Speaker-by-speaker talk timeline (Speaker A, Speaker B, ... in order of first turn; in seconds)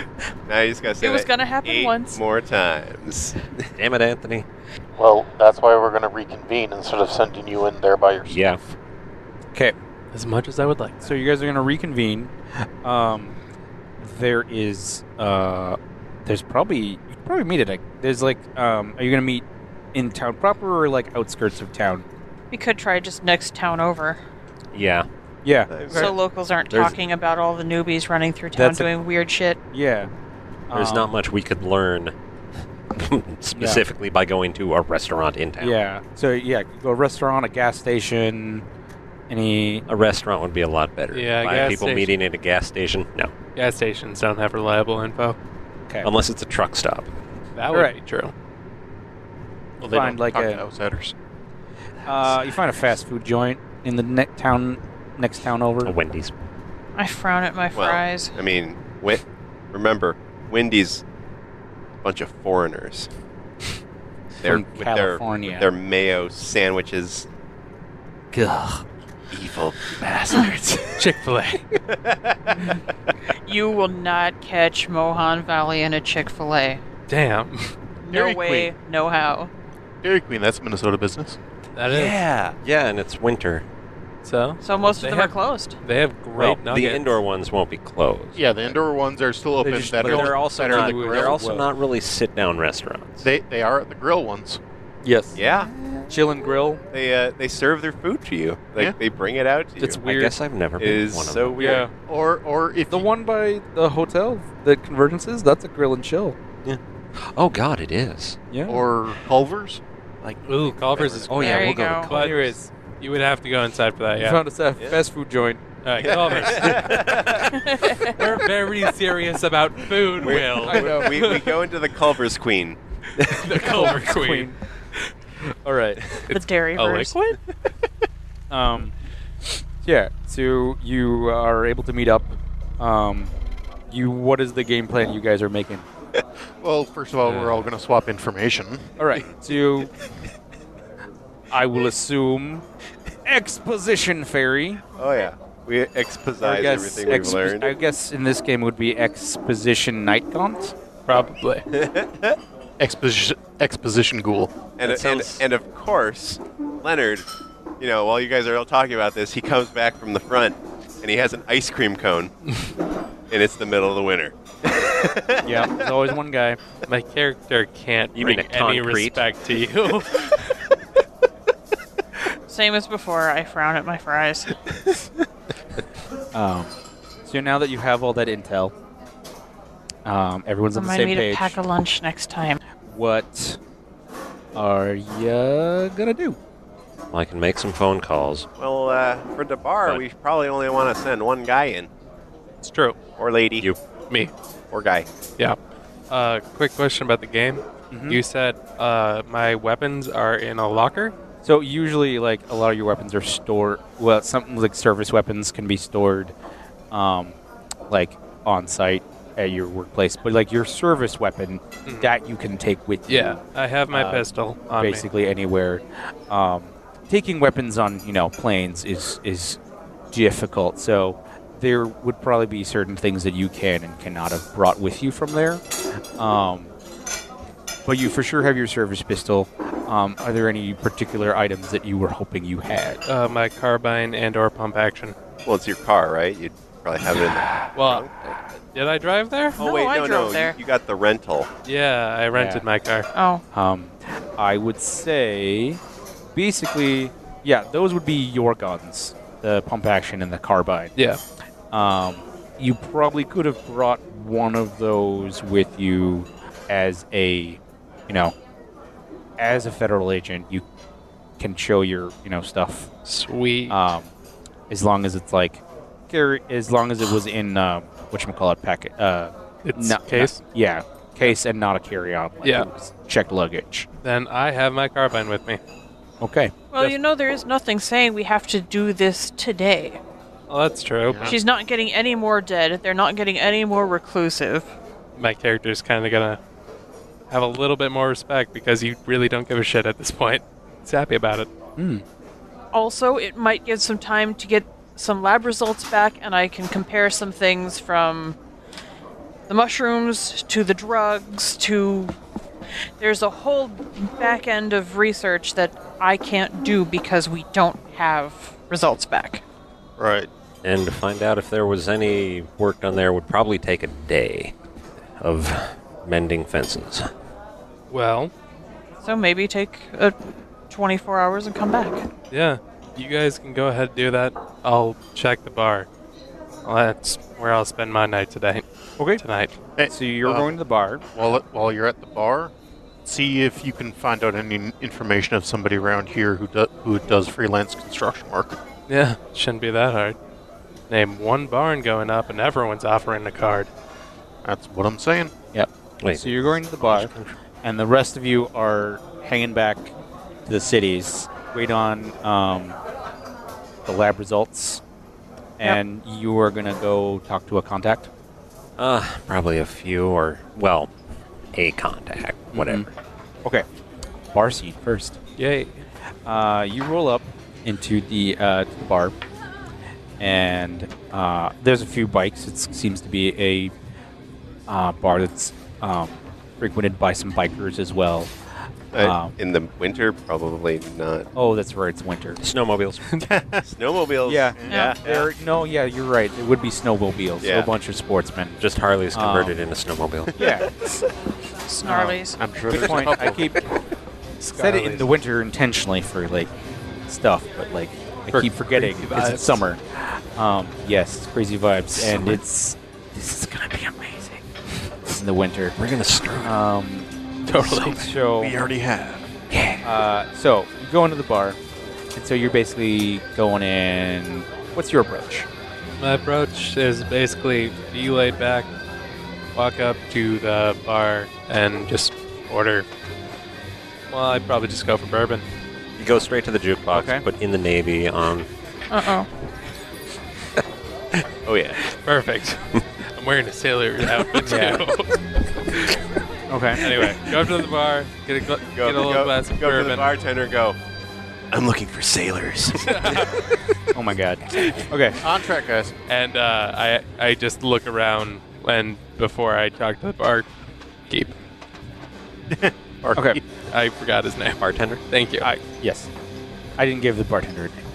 Speaker A: 0.5-3.5, 25.7-26.2, 57.8-61.0, 62.0-63.1, 64.4-67.3, 69.3-70.5, 71.9-72.6, 95.4-95.7, 96.9-100.0, 100.8-101.9, 110.2-111.5, 116.0-117.5, 120.2-122.8, 145.0-147.7, 151.7-152.4, 154.8-157.3, 157.8-162.3, 163.3-165.7, 188.6-191.9, 193.2-193.7, 194.7-195.1, 235.5-238.1, 239.6-241.5, 378.9-381.3, 383.6-385.3, 387.4-387.7, 431.5-431.7, 438.8-440.8, 441.5-443.1
Speaker B: 1.0-2.2, 22.5-24.2, 25.9-29.6, 57.0-58.4, 73.4-76.8, 78.0-79.5, 84.6-85.8, 111.4-112.1, 117.5-118.2, 126.3-127.4, 172.5-174.5, 180.7-182.6, 239.6-240.6, 243.1-243.4, 276.7-280.0, 281.3-284.7, 292.7-298.4, 299.5-302.1, 303.0-309.4, 319.0-320.2, 320.7-322.1, 384.7-385.0, 391.7-392.4, 428.9-429.3
Speaker C: 3.8-4.5, 8.3-8.6, 24.7-25.1, 30.7-32.1, 33.0-35.8, 39.9-43.3, 46.0-47.1, 55.8-56.3, 81.9-83.7, 86.3-88.8, 90.0-93.2, 100.0-101.8, 106.7-108.4, 111.3-112.4, 154.8-155.4, 168.2-169.2, 187.1-188.5, 310.6-314.5, 315.2-317.1, 346.0-347.3, 358.8-360.9, 361.5-362.9, 382.4-383.2, 388.6-390.3, 401.9-402.4, 405.8-406.5, 409.5-409.8, 426.0-428.5, 436.9-437.3, 454.6-455.0
Speaker D: 5.0-8.6, 49.8-51.1, 78.1-78.7, 80.0-81.4, 88.4-91.5, 93.2-94.6, 102.1-103.1, 108.7-109.8, 136.6-138.9, 152.8-154.7, 281.1-281.4, 310.0-310.3, 329.8-330.5, 331.1-332.5, 333.1-338.6, 344.4-345.3, 383.3-383.6, 392.4-393.5, 408.4-409.2, 445.2-445.9, 452.5-453.2
Speaker E: 10.1-11.1, 41.1-42.2, 43.5-45.4, 47.6-48.3, 71.0-71.6, 77.1-77.7, 81.8-82.2, 84.2-87.1, 110.5-114.4, 115.8-117.3, 118.1-121.5, 123.2-125.1, 126.3-127.1, 151.1-151.7, 166.9-170.6, 192.6-192.9, 196.1-201.1, 211.9-212.1, 213.1-215.1, 233.1-235.2, 237.7-239.6, 241.7-243.1, 263.1-263.8, 269.6-270.4, 272.4-272.7, 274.0-275.6, 280.5-281.4, 285.2-286.4, 287.3-291.5, 317.9-318.3, 322.3-325.9, 326.6-328.6, 329.2-329.5, 338.9-340.2, 340.9-343.7, 365.4-365.8, 394.4-395.1, 398.3-399.6, 407.4-408.0, 416.0-418.7, 419.6-422.9, 424.1-425.4, 432.0-435.2, 435.7-436.0, 436.8-440.1, 442.8-443.4, 446.1-450.5, 451.1-451.3, 453.7-454.6, 455.1-455.5
Speaker F: 11.0-12.3, 12.8-13.4, 14.0-22.1, 25.4-26.1, 28.6-28.9, 29.7-30.1, 30.7-31.1, 33.6-33.8, 35.6-38.6, 39.3-39.9, 49.9-50.6, 52.1-56.0, 64.4-65.7, 68.3-68.8, 70.3-71.0, 89.6-91.7, 95.0-96.8, 99.8-100.4, 101.6-101.9, 102.9-106.4, 108.5-108.8, 112.1-112.7, 114.2-115.6, 116.3-116.7, 120.6-121.4, 123.5-124.6, 125.7-126.0, 128.5-128.9, 129.5-133.3, 133.9-135.9, 139.0-139.9, 141.5-142.7, 143.2-144.8, 146.4-150.7, 165.4-166.6, 176.3-176.7, 177.2-178.7, 180.1-181.6, 182.8-183.6, 184.6-186.4, 197.9-198.2, 201.4-206.3, 206.9-207.4, 207.9-213.4, 213.9-214.3, 214.8-219.6, 220.1-225.6, 226.2-226.7, 227.8-233.0, 242.3-242.6, 243.5-245.8, 246.3-250.9, 251.7-258.4, 259.4-260.6, 261.4-262.9, 263.7-264.1, 264.7-273.9, 276.2-276.6, 291.8-292.0, 329.9-331.1, 345.5-347.1, 347.6-349.9, 350.5-352.8, 353.9-354.8, 355.6-358.1, 362.5-362.9, 364.3-365.2, 366.3-369.1, 370.2-373.7, 374.7-378.3, 378.9-379.4, 381.4-382.4, 384.2-388.6, 389.1-389.6, 390.4-391.0, 391.8-393.6, 394.6-396.5, 397.1-404.5, 405.0-405.8, 406.4-407.1, 407.9-408.6, 409.8-411.6, 412.1-415.5, 426.9-427.2, 434.4-434.8, 436.5-436.9, 443.9-445.2, 453.1-453.4, 455.4-456.1, 456.8-457.9